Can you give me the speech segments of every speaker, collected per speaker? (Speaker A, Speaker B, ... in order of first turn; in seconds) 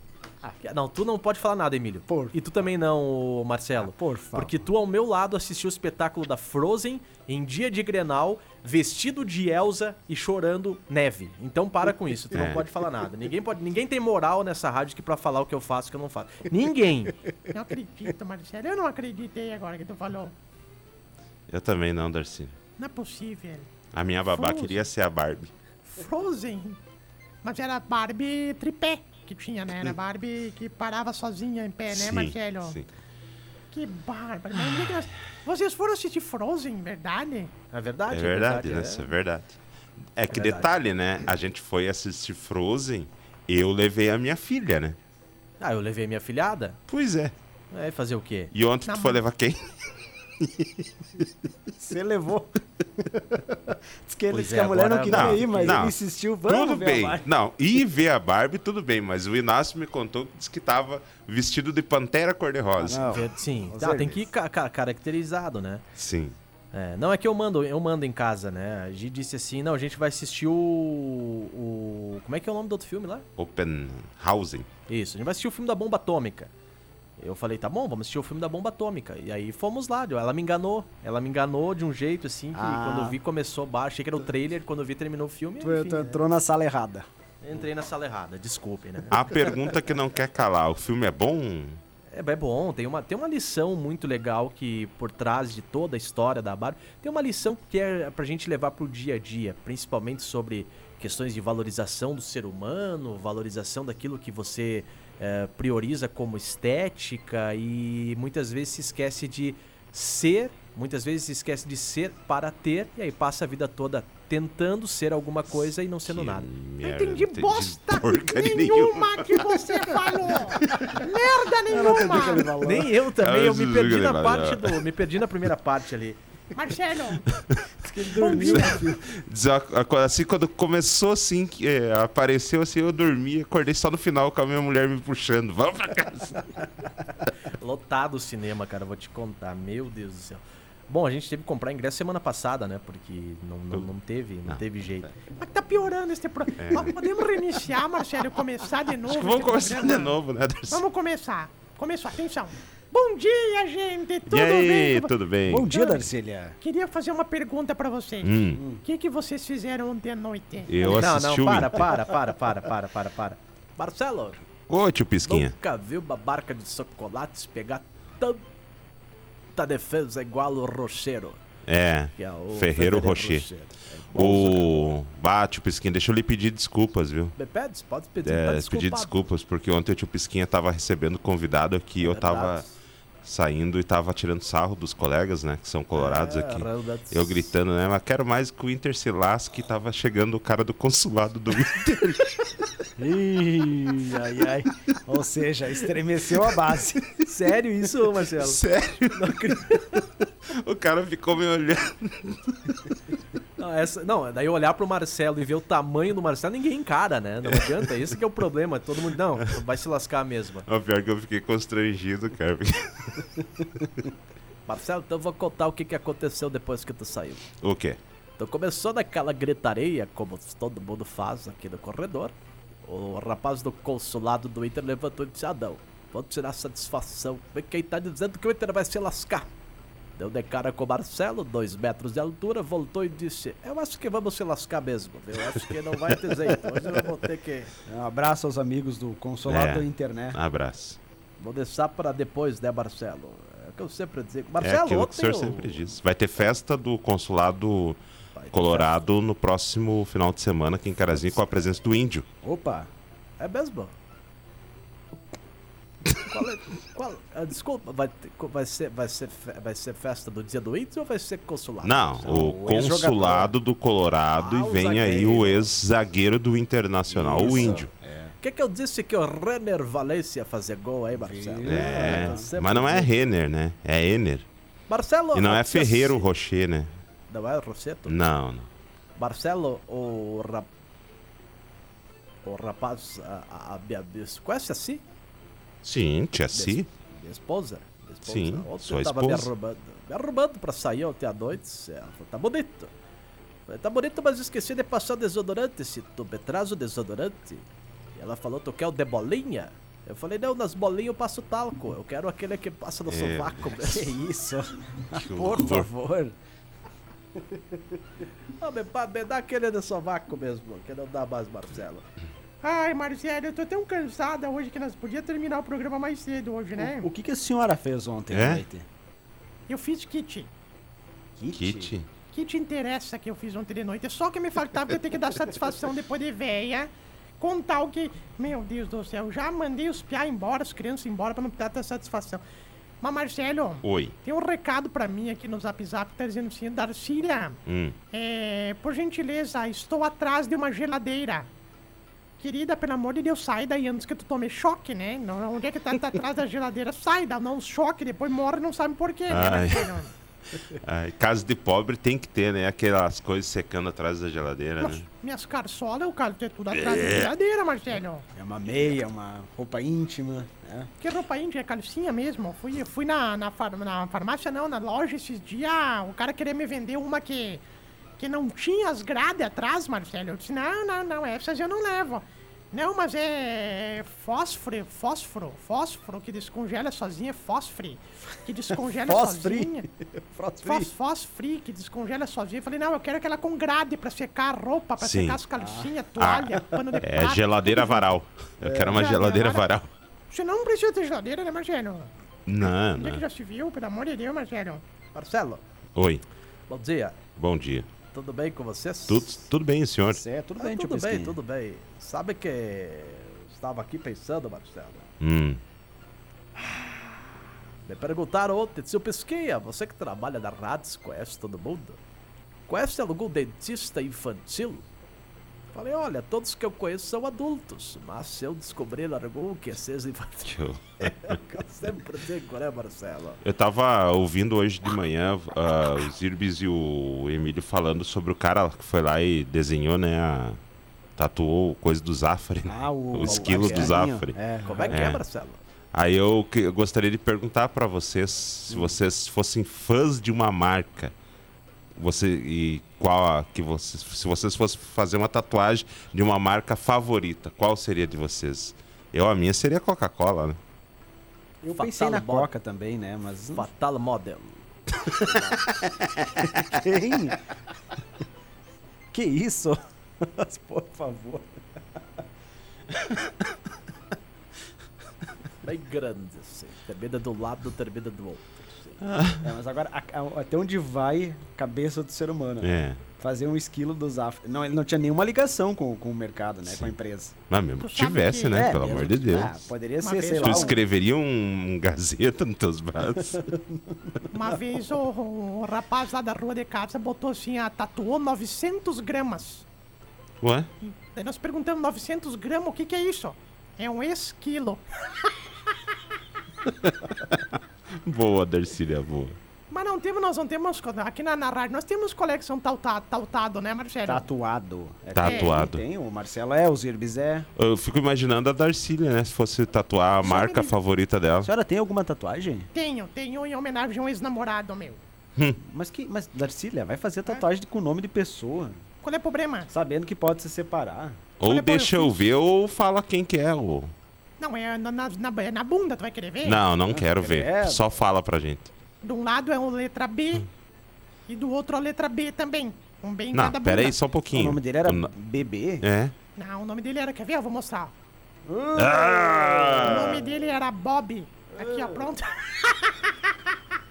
Speaker A: 0.6-17.1, 37.7-39.1, 40.3-40.7, 45.6-46.8, 47.7-48.5, 54.3-55.9, 63.0-65.8, 66.7-73.2, 74.9-76.5, 77.2-86.2, 87.4-89.6, 92.1-116.5, 122.5-126.2, 137.6-145.1, 160.8-164.4, 165.2-168.4, 169.5-171.4, 172.2-174.9, 177.4-179.2, 182.0-182.7, 185.9-187.4, 194.0-194.7, 197.2-200.1, 203.6-210.7, 214.7-217.5, 218.4-222.3, 222.8-229.5, 230.2-237.7, 241.4-245.9, 248.3-249.0, 253.4-253.9, 256.2-262.6, 264.3-265.7, 267.2-267.8, 268.4-273.1, 274.9-276.3, 277.3-278.3, 279.2-280.7, 282.4-285.0, 286.5-292.9, 293.7-304.1, 308.6-312.1, 395.1-395.6, 396.7-397.2, 398.1-399.5, 400.6-405.1, 406.6-407.3, 407.8-412.0, 412.7-414.8, 415.7-423.4, 433.2-434.0, 434.6-435.6, 451.7-452.5, 453.5-455.6, 465.6-469.0
Speaker B: 2.1-2.3, 3.8-4.5, 51.8-57.3, 62.8-64.2, 82.5-83.2, 85.6-87.0, 121.6-122.9, 127.8-129.0, 155.5-156.6, 158.5-158.8, 193.0-197.2, 237.9-240.4, 252.4-252.9, 262.2-263.5, 267.1-268.4, 271.1-272.5, 303.7-306.3, 316.8-318.9, 321.4-321.9, 358.3-360.9, 378.7-380.9, 385.5-385.9, 388.6-389.1, 400.1-401.4, 432.7-435.1, 438.7-439.0, 451.6-453.7, 456.5-457.5, 459.1-462.2, 469.4-477.4, 478.5-480.8, 483.3-484.4, 504.1-507.5, 511.4-512.7, 515.6-518.8, 519.7-521.2, 526.9-527.9, 534.3-535.9, 538.5-540.4, 541.5-542.1
Speaker C: 12.3-12.6, 21.5-22.6, 23.9-25.5, 31.9-32.8, 38.1-39.6, 40.1-45.0, 46.9-47.3, 48.5-51.3, 55.0-55.9, 56.5-63.1, 66.0-66.3, 73.4-74.7, 89.1-91.8, 116.1-121.0, 123.2-124.8, 127.3-136.5, 146.6-146.9, 149.1-150.8, 154.2-155.7, 158.2-158.6, 160.7-161.9, 164.7-165.5, 171.7-173.4, 174.1-177.3, 178.2-182.6, 183.2-192.7, 198.4-199.8, 200.5-202.9, 210.7-214.1, 217.6-218.0, 239.4-241.0, 244.6-248.0, 248.5-252.3, 261.8-267.9, 271.6-274.4, 275.3-276.9, 278.1-278.7, 285.8-286.9, 288.2-289.5, 303.1-303.7, 305.1-305.9, 318.3-318.6, 321.5-322.1, 333.8-334.1, 337.6-337.9, 349.3-350.0, 350.7-355.0, 356.8-357.3, 385.0-385.4, 386.2-389.9, 392.4-393.2, 395.9-396.2, 397.4-397.9, 399.1-400.2, 405.2-405.6, 420.5-421.4, 423.4-430.6, 431.2-434.3, 434.9-435.2, 435.9-441.1, 441.9-450.6, 469.0-469.5, 472.6-473.0, 477.5-479.7, 480.4-483.5, 490.4-490.7, 496.6-499.4, 505.1-505.8, 507.6-511.5, 521.4-523.9, 526.4-528.7, 533.3-535.1, 535.8-536.1, 538.7-540.2
Speaker D: 17.5-20.3, 22.8-23.7, 24.3-24.8, 25.9-26.8, 27.4-32.8, 33.7-37.5, 48.8-49.2, 116.8-122.5, 126.5-127.2, 128.1-128.8, 145.4-150.2, 150.7-155.1, 155.7-156.1, 156.6-160.7, 312.6-317.1, 319.7-320.5, 322.3-332.4, 333.0-337.6, 338.1-341.5, 342.4-350.1, 354.8-358.3, 361.0-367.6, 368.2-379.9, 380.6-388.1, 388.9-389.7, 390.3-392.1, 392.6-394.8, 477.8-478.7, 480.0-480.8, 484.3-489.6, 490.8-495.4, 499.7-504.2, 505.2-505.6, 510.2-510.8, 512.7-515.0, 519.0-519.7, 521.4-522.2, 524.4-526.6, 529.0-530.5, 531.3-534.0, 536.4-537.9, 539.7-543.3